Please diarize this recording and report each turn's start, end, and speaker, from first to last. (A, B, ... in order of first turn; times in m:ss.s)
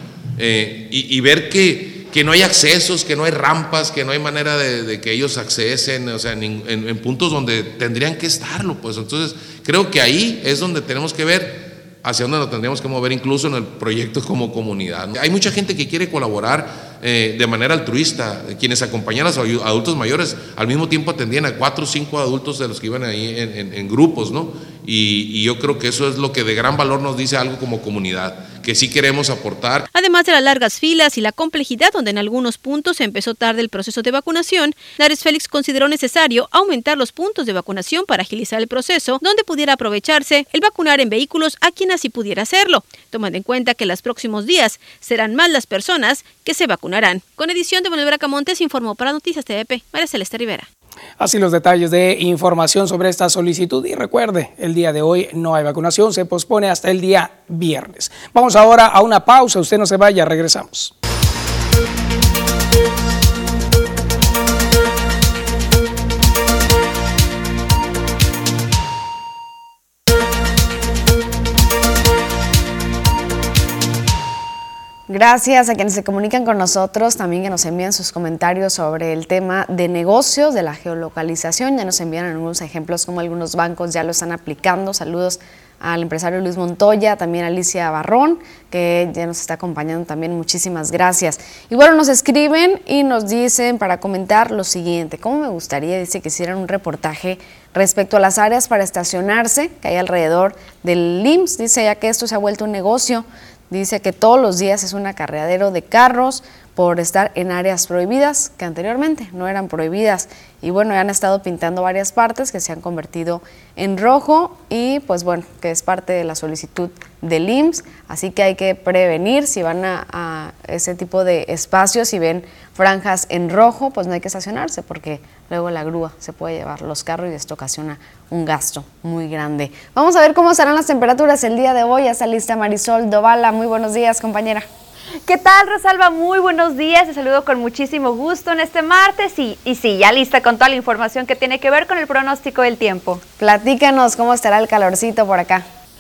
0:00.4-0:29.9 A
0:29.9-0:50.7 B
0:51.2-1:00.9 C
1:15.1-2:14.7 D
2:15.3-2:23.2 E
2:23.4-2:25.7 D